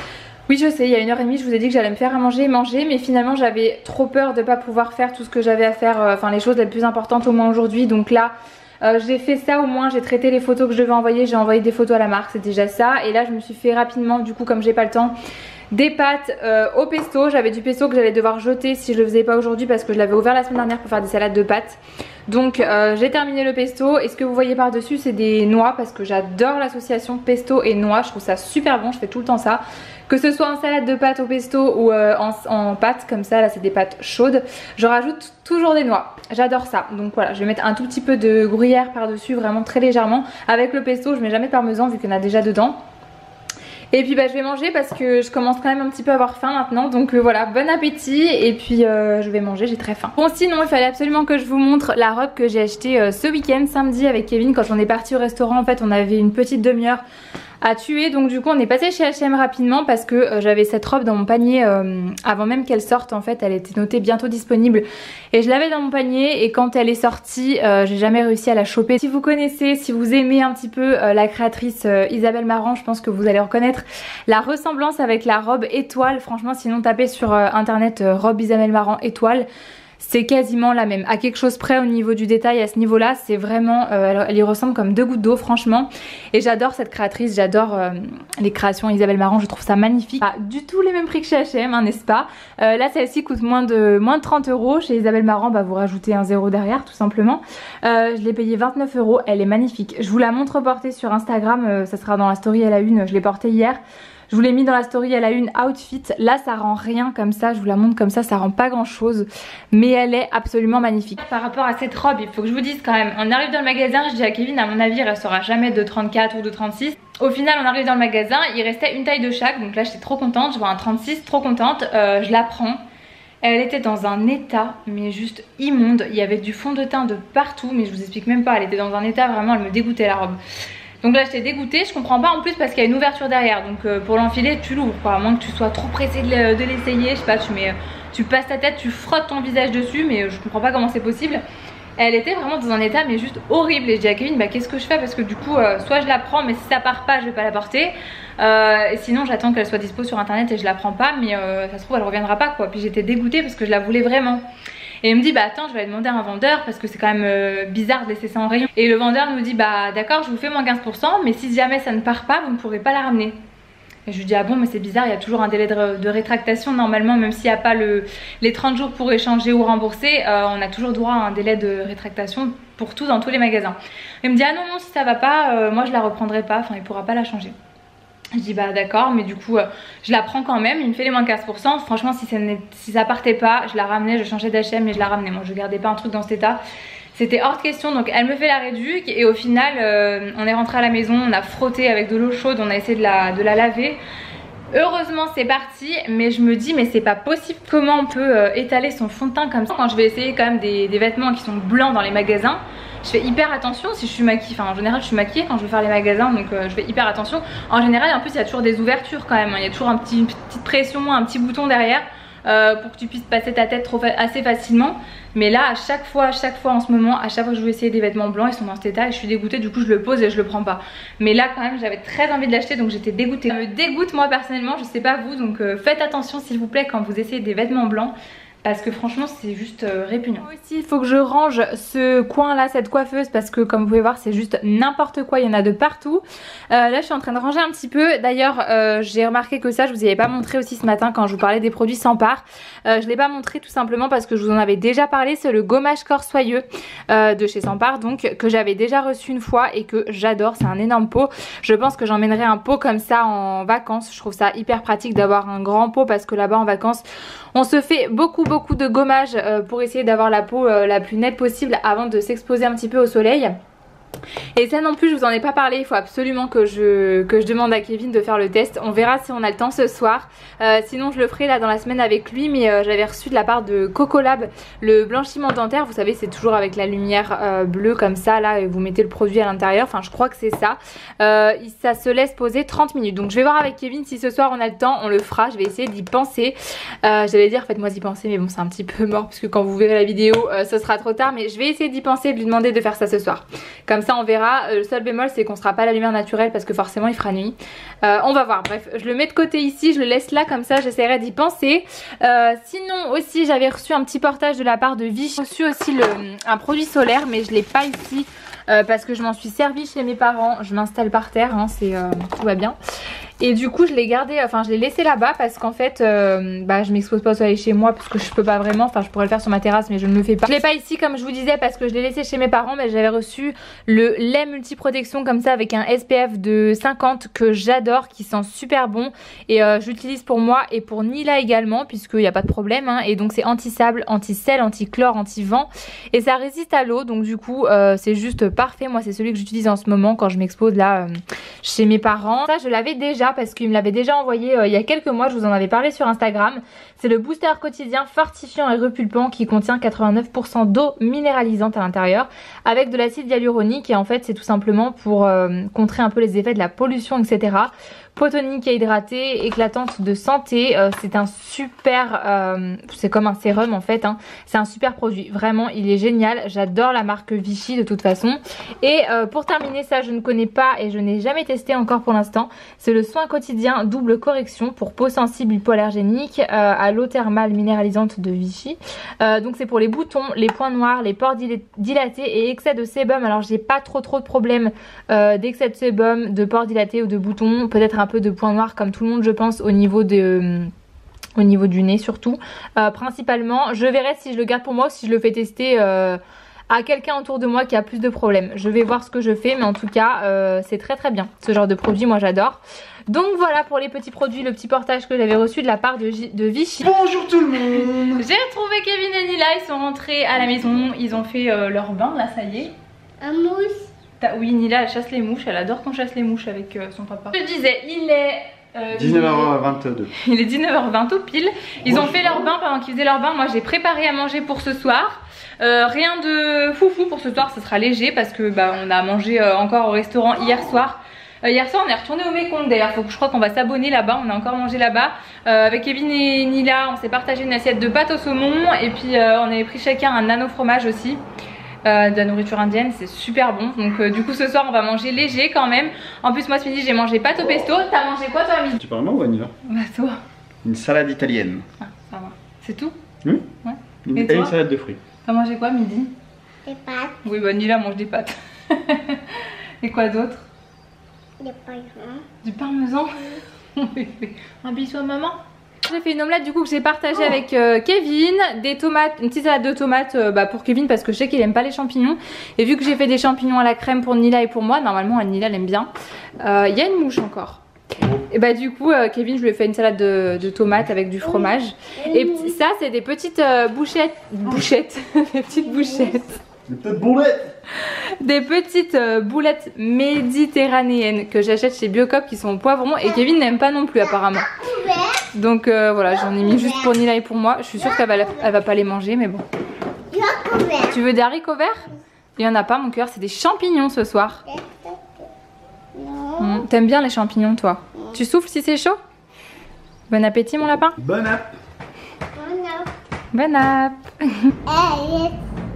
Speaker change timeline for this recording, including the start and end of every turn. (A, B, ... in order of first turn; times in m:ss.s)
0:00.5-0:15.1 A
0:15.7-0:42.8 A
0:43.9-0:57.0 A
0:57.6-1:19.5 A
1:20.0-2:02.8 A
2:03.4-2:10.4 A
2:11.0-2:21.4 A
2:22.0-2:34.4 A
2:35.0-2:43.4 A
2:44.1-2:57.6 A
2:58.4-3:06.6 A
3:07.1-3:14.0 A
3:14.7-4:23.6 A
4:24.6-5:12.8 A
5:13.4-6:30.7 A
6:31.4-6:52.8 A
6:46.8-6:48.2 B
6:53.2-6:53.9 C
6:54.2-7:21.2 A
6:58.9-7:00.1 B
7:01.9-7:02.4 B
7:21.8-7:28.8 A
7:28.8-7:29.5 B
7:29.6-7:30.2 A
7:30.6-7:31.6 B
7:31.8-7:33.0 A
7:33.6-7:34.6 A
7:34.0-7:35.0 B
7:35.2-7:36.1 A
7:36.7-7:37.2 C
7:37.2-7:40.5 A
7:41.4-7:42.2 C
7:42.4-7:55.9 A
7:56.4-7:57.6 A
7:58.3-8:06.4 A
8:01.2-8:02.6 C
8:05.8-8:06.1 C
8:06.7-8:07.6 B
8:07.7-8:14.6 A
8:14.3-8:15.2 C
8:15.3-8:19.4 A
8:16.2-8:16.9 C
8:17.8-8:18.5 C
8:20.1-8:21.0 C
8:20.8-8:24.4 A
8:24.5-8:25.3 C
8:25.9-8:26.6 C
8:26.4-8:29.0 A
8:30.1-8:31.0 A
8:31.0-8:31.6 B
8:32.4-8:32.9 C
8:33.3-8:34.5 A
8:34.7-8:35.4 C